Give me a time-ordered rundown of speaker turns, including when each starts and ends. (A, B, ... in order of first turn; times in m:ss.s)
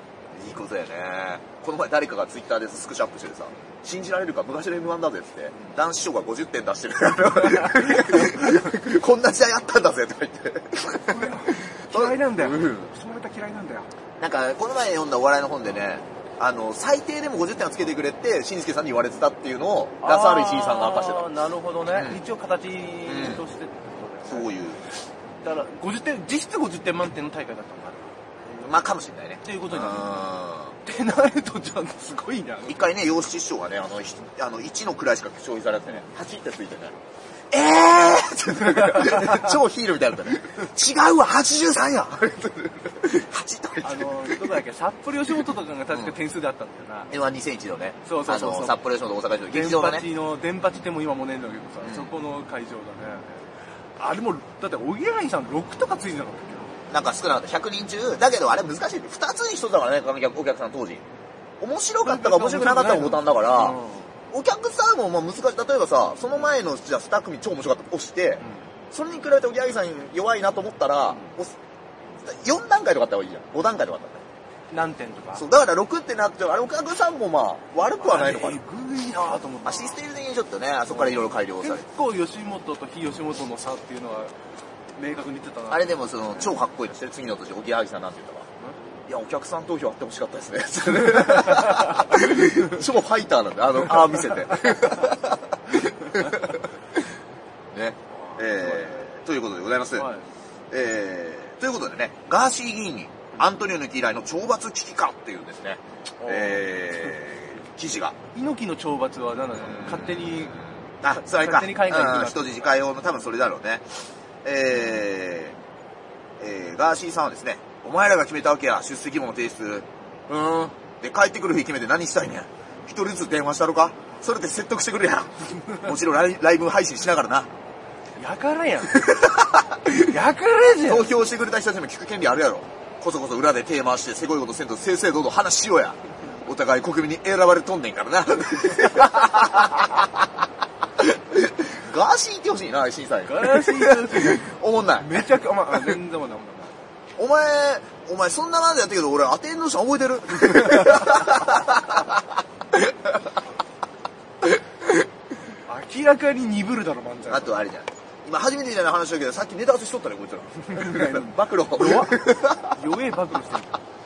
0:00.4-0:12.9 A
0:10.9-0:13.9 B
0:14.2-0:21.3 A
0:20.0-0:24.5 B
0:21.9-0:22.2 A
0:23.1-0:23.4 A
0:24.3-0:24.8 A
0:25.4-0:28.1 B
0:28.5-0:30.8 A
0:29.4-0:30.1 B
0:30.8-0:32.8 B
0:32.6-0:37.0 A
0:37.5-0:44.5 A
0:39.0-0:39.4 B
0:43.8-0:47.1 B
0:47.1-0:50.1 A
0:48.0-0:48.8 B
0:49.5-0:56.8 B
0:51.8-0:52.1 A
0:56.9-1:01.0 A
1:01.6-1:03.8 A
1:02.0-1:04.1 B
1:04.3-1:11.5 A
1:12.2-1:14.3 A
1:14.7-1:15.4 B
1:15.4-1:18.6 A
1:18.0-1:20.0 B
1:19.6-1:21.9 A
1:20.9-1:24.3 B
1:25.0-1:26.0 B
1:25.7-1:28.5 A
1:29.1-1:36.7 A
1:37.7-1:40.1 A
1:38.1-1:39.0 B
1:40.0-1:40.3 B
1:40.7-1:48.2 A
1:46.2-1:46.7 B
1:48.3-1:52.7 B
1:49.6-1:55.6 A
1:56.4-2:07.5 A
2:08.2-2:11.1 B
2:09.0-2:10.0 A
2:10.8-2:20.2 A
2:21.0-2:26.0 A
2:23.2-2:26.8 B
2:27.2-2:32.2 A
2:35.7-2:37.6 B
2:37.3-2:42.8 A
2:40.7-2:43.8 B